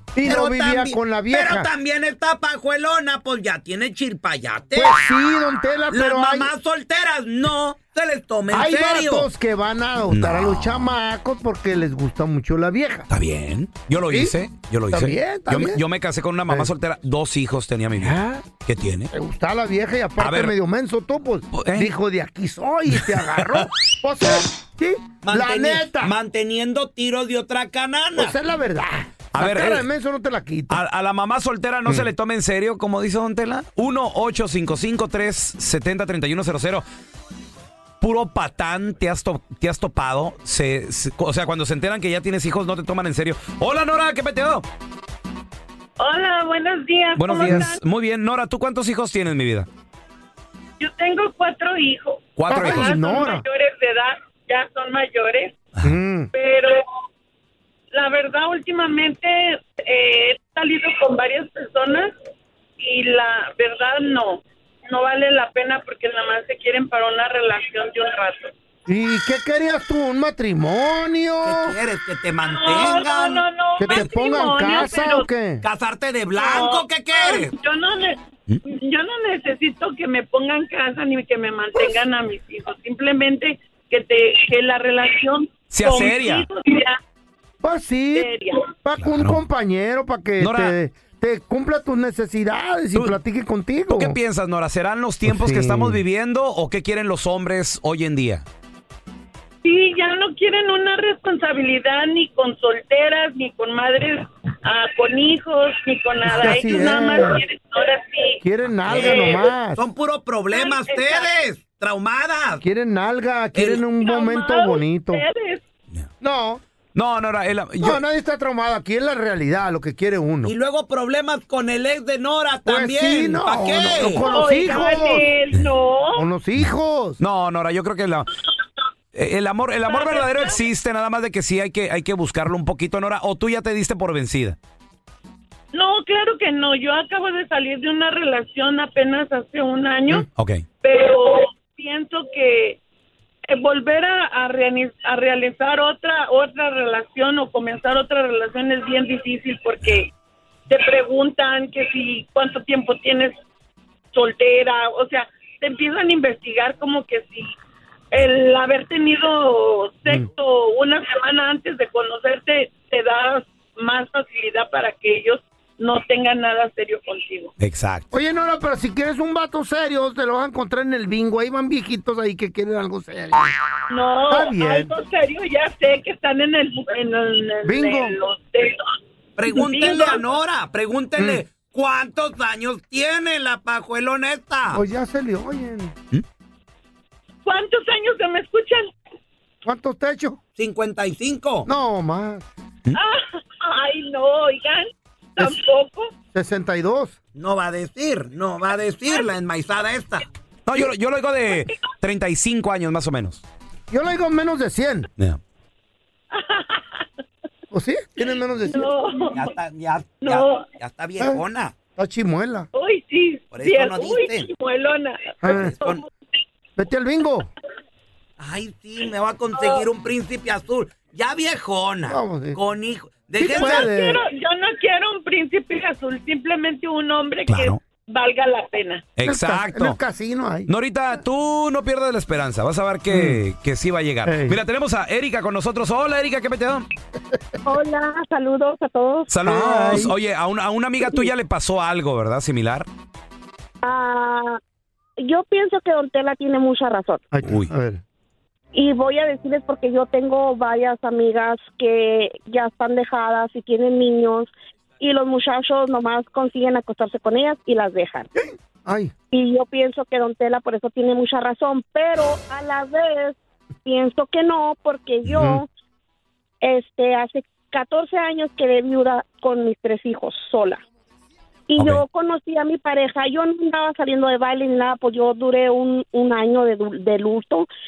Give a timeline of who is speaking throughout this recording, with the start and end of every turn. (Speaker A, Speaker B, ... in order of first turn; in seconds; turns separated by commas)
Speaker A: 0.1-1.7, Speaker B: 0.2-5.0, Speaker A: 4.7-6.5, Speaker B: 5.9-9.3, Speaker A: 8.5-13.1, Speaker C: 10.1-10.9, Speaker C: 13.1-19.1, Speaker A: 14.9-15.8, Speaker A: 18.0-18.4, Speaker A: 19.1-26.1, Speaker C: 20.2-20.5, Speaker C: 21.5-21.9, Speaker C: 23.0-23.6, Speaker B: 25.2-28.3, Speaker A: 28.1-30.8, Speaker C: 29.3-29.9, Speaker C: 30.7-36.8, Speaker C: 38.0-44.6, Speaker D: 46.0-47.8, Speaker C: 47.1-49.7, Speaker A: 47.4-47.7, Speaker D: 50.8-55.6, Speaker C: 52.4-53.0, Speaker A: 52.5-53.4, Speaker A: 55.8-56.3, Speaker D: 56.3-56.8, Speaker D: 57.9-62.1, Speaker D: 62.8-68.5, Speaker A: 68.9-71.8, Speaker B: 71.4-74.1, Speaker D: 72.4-75.3, Speaker A: 73.8-75.6, Speaker B: 75.6-77.5, Speaker D: 76.3-87.0, Speaker C: 85.7-86.5, Speaker A: 87.6-88.3, Speaker D: 88.1-88.6, Speaker A: 88.8-94.2, Speaker C: 89.0-89.4, Speaker C: 90.4-90.7, Speaker C: 93.9-98.4, Speaker A: 95.2-96.0, Speaker D: 99.6-109.5, Speaker A: 106.2-107.4, Speaker A: 108.4-109.8, Speaker B: 108.9-112.6, Speaker D: 110.5-111.3, Speaker A: 112.6-115.2, Speaker B: 113.5-113.8, Speaker D: 113.9-115.6, Speaker A: 116.2-116.6, Speaker C: 116.9-118.0, Speaker A: 117.8-120.5, Speaker B: 120.4-124.9, Speaker A: 122.6-125.2, Speaker D: 124.2-126.2, Speaker A: 126.1-127.2, Speaker C: 127.2-128.3, Speaker C: 129.1-134.6, Speaker D: 129.8-130.6, Speaker D: 135.7-140.3, Speaker C: 140.3-140.6, Speaker D: 140.8-142.8, Speaker D: 143.5-150.1, Speaker D: 150.7-153.3, Speaker D: 154.1-157.5, Speaker D: 158.1-167.5, Speaker C: 167.6-168.1, Speaker A: 168.1-173.5, Speaker D: 173.9-178.8, Speaker A: 174.3-174.9, Speaker A: 177.6-178.1, Speaker B: 179.4-184.8, Speaker D: 179.5-180.3, Speaker A: 181.2-181.4, Speaker A: 184.7-185.9, Speaker D: 187.4-188.9, Speaker A: 189.6-190.4, Speaker B: 190.6-191.7, Speaker A: 191.7-192.4, Speaker D: 192.9-196.1, Speaker A: 196.3-197.2, Speaker B: 197.3-200.2, Speaker C: 200.7-203.4, Speaker A: 203.9-205.1, Speaker D: 206.3-207.1, Speaker A: 207.7-208.9, Speaker D: 208.7-209.5, Speaker B: 209.3-211.7, Speaker D: 210.2-210.7, Speaker A: 211.9-212.7, Speaker D: 212.7-216.1, Speaker B: 213.5-214.5, Speaker A: 215.4-215.7, Speaker B: 215.5-216.0, Speaker A: 216.8-217.5, Speaker B: 218.4-223.9, Speaker D: 219.6-219.8, Speaker A: 222.1-222.6, Speaker A: 223.4-224.2, Speaker D: 223.4-229.1, Speaker C: 227.5-227.8, Speaker C: 229.2-230.0, Speaker A: 229.2-230.7, Speaker C: 230.7-236.8, Speaker A: 233.1-233.4, Speaker A: 234.2-234.6, Speaker E: 237.7-239.3, Speaker C: 239.3-242.9, Speaker A: 239.4-240.1, Speaker E: 243.8-244.6, Speaker E: 245.2-247.2, Speaker A: 247.3-248.0, Speaker C: 247.4-247.7, Speaker E: 248.7-258.3, Speaker A: 258.4-259.1, Speaker E: 259.3-265.7, Speaker A: 265.3-265.6, Speaker E: 266.6-270.8, Speaker E: 271.7-277.7, Speaker C: 271.8-272.0